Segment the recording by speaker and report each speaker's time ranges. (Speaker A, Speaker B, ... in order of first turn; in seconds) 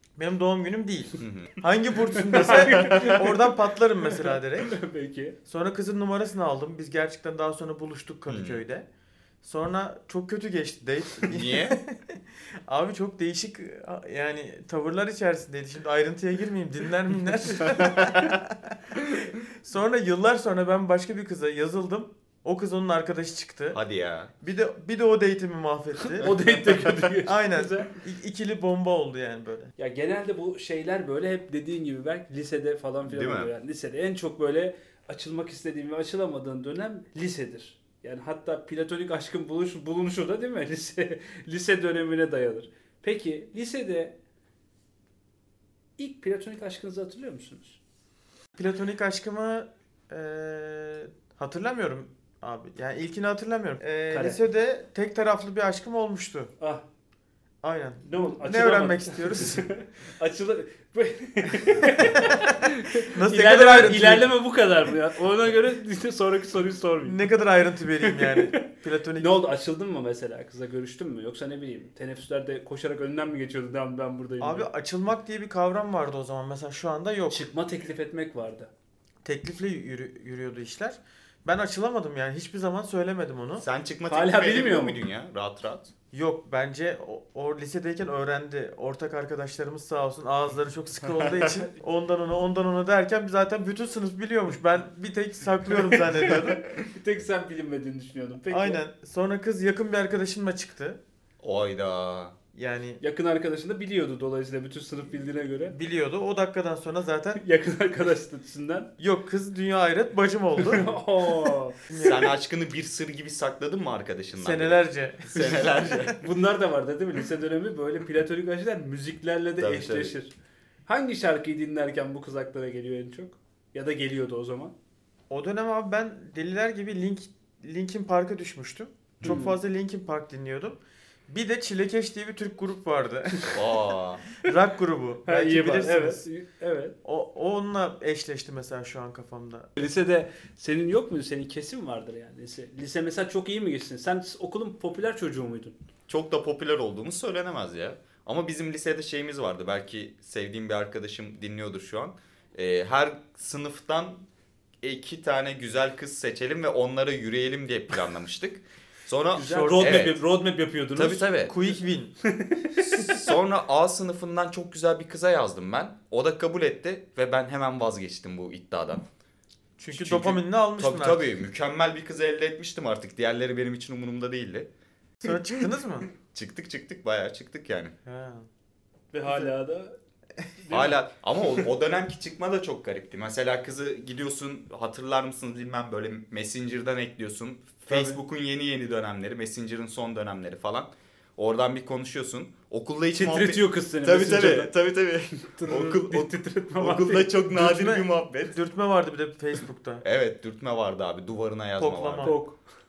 Speaker A: 0.2-4.8, 5.5-8.9, 9.4-18.8, 19.6-23.8, 24.4-26.4, 27.2-29.7, 48.6-56.5, 57.6-59.7, 63.0-64.3, 67.0-69.4, 74.4-77.5, 79.2-83.7, 86.1-96.6, 98.5-101.0, 102.5-103.0, 105.7-107.4, 109.0-111.0, 111.9-112.3, 114.4-116.1, 125.3-133.7, 134.4-136.2, 137.1-139.7, 159.4-160.1, 161.4-162.1, 169.8-171.2, 175.2-176.1, 178.1-178.5, 197.5-200.0, 201.8-202.4
Speaker B: 1.2-1.5, 8.3-8.6, 11.2-11.8, 17.8-18.2, 23.7-24.3, 33.1-33.5, 83.6-85.9, 101.4-102.4, 112.0-116.2, 119.6-120.1, 133.5-134.2, 146.1-154.2, 154.8-160.2, 161.0-161.6, 162.8-169.1, 169.9-174.7, 176.3-177.9, 180.7-198.6, 200.0-202.3
Speaker C: 2.1-3.5, 4.2-5.4, 26.0-27.9, 29.8-44.2, 46.0-47.8, 54.1-54.4, 58.0-67.2, 68.0-74.7, 77.3-78.7, 84.1-85.0, 91.2-91.7, 95.9-98.8, 103.0-105.8, 107.4-108.9, 110.6-111.8, 116.1-120.3, 120.9-124.7, 129.2-129.5, 135.3-137.0, 139.8-145.8, 159.3-161.3, 162.2-163.2, 179.1-180.0, 180.6-180.9, 187.9-188.2, 193.1-194.7, 195.4-197.3, 202.2-202.6